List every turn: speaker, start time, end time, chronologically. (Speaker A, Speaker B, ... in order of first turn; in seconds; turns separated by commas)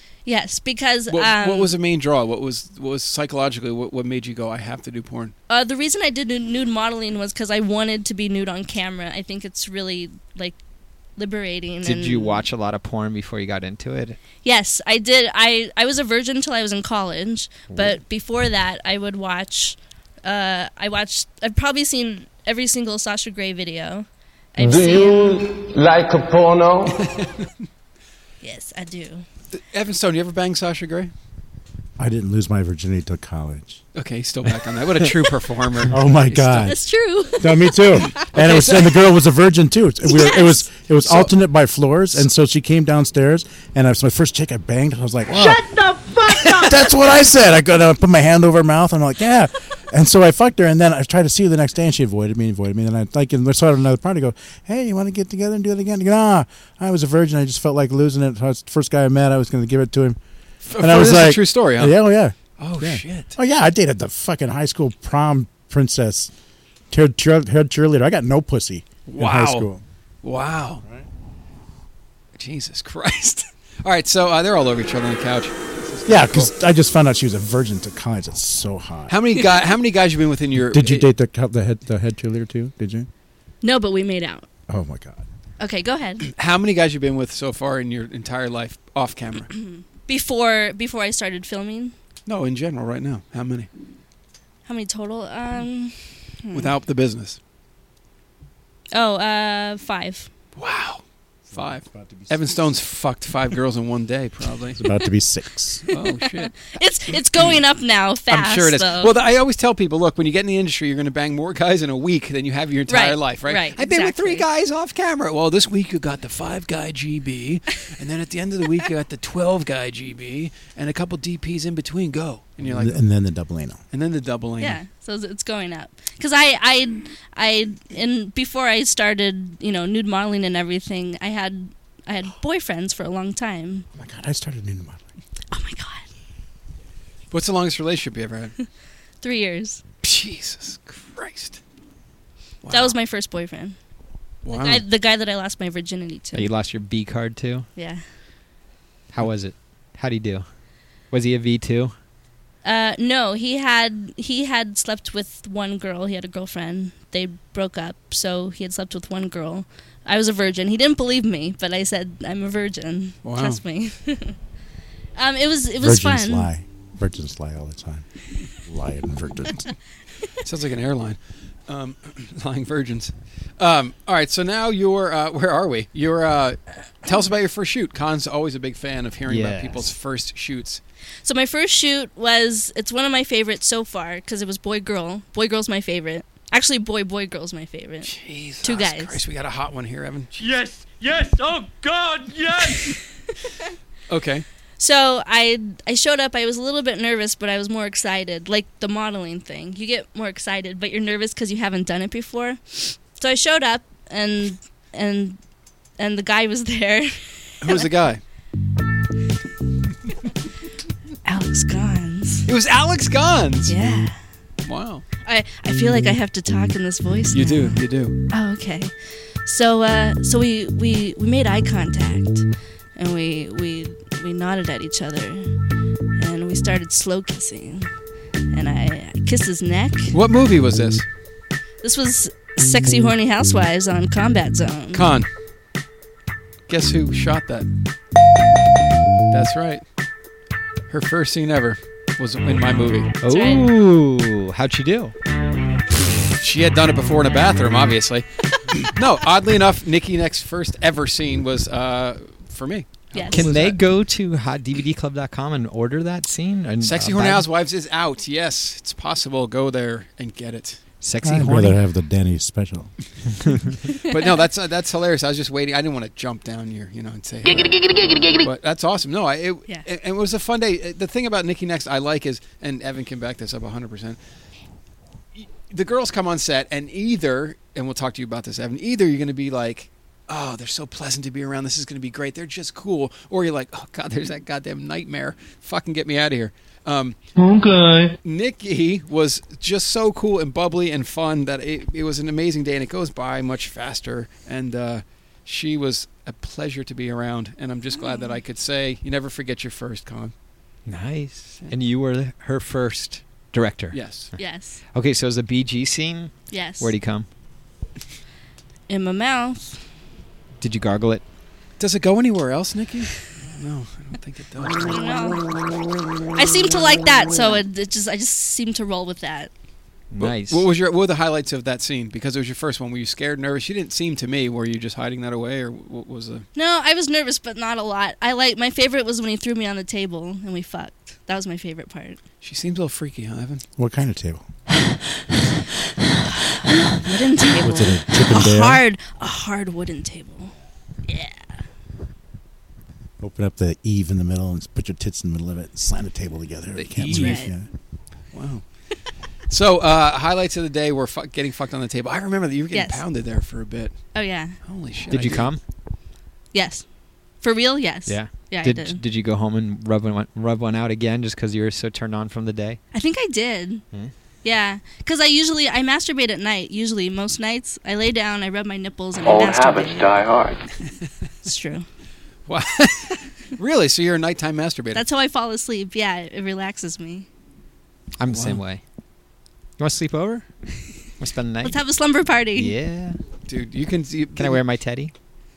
Speaker A: 0.2-1.7, Speaker B: 1.1-5.3, Speaker A: 5.5-10.6, Speaker A: 11.2-12.4, Speaker C: 11.8-14.2, Speaker A: 14.4-25.4, Speaker C: 17.7-18.0, Speaker D: 24.6-26.9, Speaker B: 27.0-27.5, Speaker A: 28.4-29.2, Speaker B: 29.5-31.1, Speaker E: 32.0-33.8, Speaker B: 33.9-36.7, Speaker E: 35.9-36.8, Speaker A: 36.6-38.2, Speaker E: 37.4-45.6, Speaker B: 38.3-39.0, Speaker A: 40.0-40.7, Speaker B: 41.0-41.3, Speaker A: 45.7-46.4, Speaker E: 46.3-60.2, Speaker B: 60.6-62.0, Speaker E: 60.8-66.3, Speaker B: 62.6-63.3, Speaker E: 66.9-69.8, Speaker B: 69.1-69.7, Speaker B: 70.2-70.8, Speaker B: 72.3-76.5, Speaker E: 76.0-79.2, Speaker B: 79.1-81.0, Speaker E: 80.5-83.1, Speaker A: 83.6-84.5, Speaker E: 84.7-85.2, Speaker A: 85.6-86.3, Speaker B: 86.3-89.5, Speaker A: 89.5-91.9, Speaker B: 92.2-93.7, Speaker A: 94.7-96.7, Speaker B: 96.5-97.4, Speaker A: 98.9-100.3, Speaker B: 100.5-104.8, Speaker E: 101.5-102.7, Speaker E: 104.8-105.8, Speaker B: 105.9-106.7, Speaker A: 105.9-109.1, Speaker B: 108.3-123.0, Speaker A: 112.9-114.5, Speaker E: 122.6-123.8, Speaker B: 123.9-124.8, Speaker A: 124.6-133.8, Speaker E: 133.9-135.0, Speaker A: 135.5-136.0, Speaker B: 137.3-138.5, Speaker A: 139.2-139.8, Speaker B: 140.0-141.6, Speaker B: 142.6-142.9, Speaker A: 142.7-143.8, Speaker B: 144.4-144.8, Speaker A: 144.5-146.5, Speaker C: 146.3-147.7, Speaker A: 147.8-148.0, Speaker C: 149.1-150.4, Speaker C: 151.1-151.9, Speaker A: 152.6-164.3, Speaker B: 163.2-163.6, Speaker A: 165.2-166.5, Speaker E: 165.8-168.0, Speaker E: 168.7-169.7, Speaker B: 170.4-180.8, Speaker C: 179.3-179.9, Speaker A: 181.2-189.2, Speaker B: 188.0-190.4, Speaker F: 190.4-192.9, Speaker B: 194.1-194.4, Speaker A: 194.8-205.4, Speaker A: 206.0-207.9, Speaker B: 207.6-208.2, Speaker A: 211.2-212.5, Speaker B: 212.5-213.8, Speaker A: 213.7-214.2, Speaker B: 214.6-215.0, Speaker A: 215.2-217.8, Speaker B: 217.3-218.2, Speaker A: 218.3-218.9, Speaker A: 219.4-225.6, Speaker A: 226.2-227.9, Speaker A: 228.5-230.1, Speaker B: 230.1-231.0, Speaker A: 231.8-235.1, Speaker B: 234.9-235.3, Speaker B: 236.7-237.7, Speaker B: 239.3-239.8, Speaker B: 240.9-243.1, Speaker C: 243.2-245.1, Speaker A: 243.2-243.7, Speaker B: 246.3-253.8, Speaker A: 253.1-253.5, Speaker C: 253.3-257.4, Speaker B: 256.8-260.8, Speaker C: 261.0-261.8, Speaker E: 261.2-262.9, Speaker B: 263.9-274.2, Speaker B: 275.3-287.2, Speaker D: 287.4-288.1, Speaker B: 288.2-300.3, Speaker A: 298.0-298.3, Speaker C: 300.9-304.0, Speaker B: 303.9-304.3, Speaker A: 304.4-304.8, Speaker C: 304.9-307.3, Speaker A: 306.5-306.9, Speaker A: 308.9-309.8, Speaker C: 310.6-311.2, Speaker B: 311.8-315.0, Speaker A: 314.9-315.4, Speaker A: 316.3-319.5, Speaker C: 320.1-320.6, Speaker B: 320.2-326.4, Speaker A: 326.5-332.2, Speaker B: 332.4-333.6, Speaker E: 333.8-334.4, Speaker A: 336.6-340.5, Speaker E: 337.6-338.8, Speaker A: 341.1-341.4, Speaker E: 343.2-347.7, Speaker B: 346.7-347.5, Speaker A: 347.1-347.5, Speaker B: 348.3-348.7, Speaker B: 349.5-355.5, Speaker A: 352.7-353.0, Speaker A: 354.1-354.6, Speaker C: 355.1-355.6, Speaker A: 356.5-356.8, Speaker A: 357.4-359.0, Speaker C: 358.1-362.8, Speaker A: 362.9-363.8, Speaker A: 364.4-370.2, Speaker A: 371.4-371.9, Speaker B: 372.5-375.0, Speaker A: 374.9-377.3, Speaker C: 378.2-378.8, Speaker B: 378.3-378.6, Speaker C: 379.8-380.5, Speaker C: 381.2-381.8, Speaker A: 381.6-382.7, Speaker C: 382.5-383.2, Speaker B: 383.5-384.6, Speaker C: 384.4-385.1